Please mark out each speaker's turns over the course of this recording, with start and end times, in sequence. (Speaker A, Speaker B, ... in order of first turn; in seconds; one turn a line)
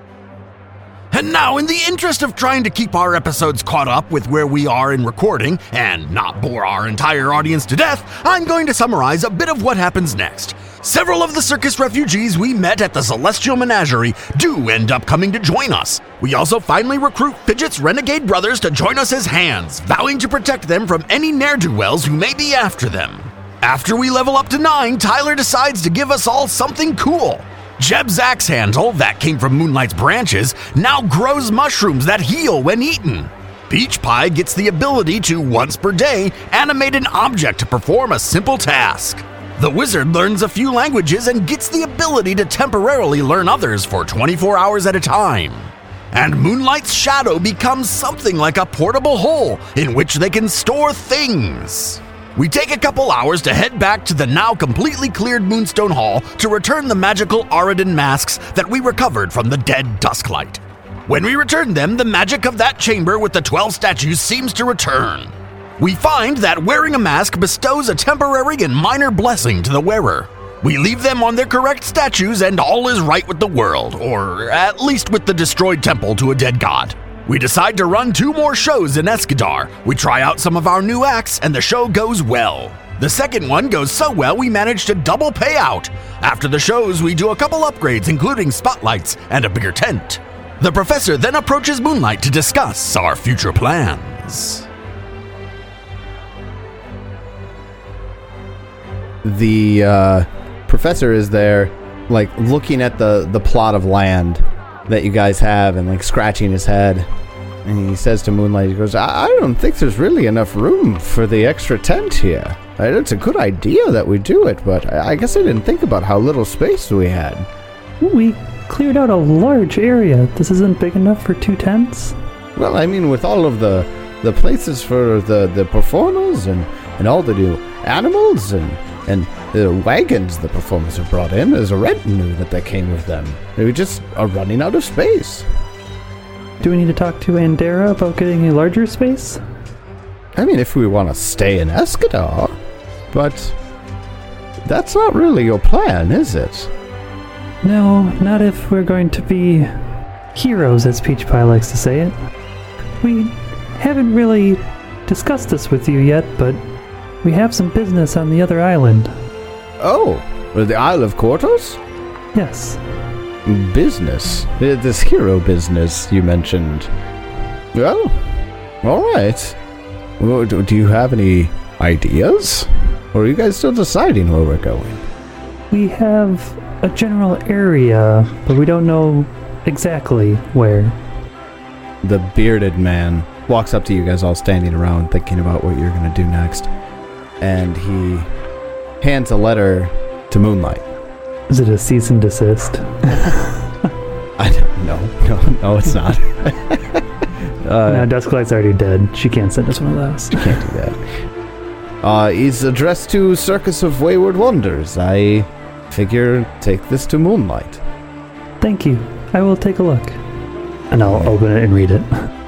Speaker A: 1.1-94.7
Speaker B: 99.2-107.1
Speaker B: 107.6-117.5
Speaker C: 118.0-122.2
Speaker B: 122.5-135.4
Speaker C: 136.6-139.4
Speaker B: 140.3-142.6
Speaker B: 143.1-143.6
Speaker B: 144.6-146.7
Speaker C: 147.6-149.8
Speaker C: 150.3-152.1
Speaker C: 153.0-156.6
Speaker C: 157.2-159.1
Speaker B: 159.8-161.8
Speaker C: 162.3-162.8
Speaker B: 163.4-166.9
Speaker B: 167.7-168.3
Speaker B: 168.8-169.6
Speaker B: 170.2-175.0
Speaker C: 175.7-181.0
Speaker B: 182.0-186.7
Speaker B: 187.4-188.3
Speaker B: 189.0-190.8
Speaker C: 191.5-193.7
Speaker B: 194.4-197.0
Speaker B: 197.6-198.1
Speaker C: 197.8-200.6
Speaker B: 200.3-201.0
Speaker B: 202.0-207.8
Speaker C: 208.6-210.2
Speaker C: 210.9-212.3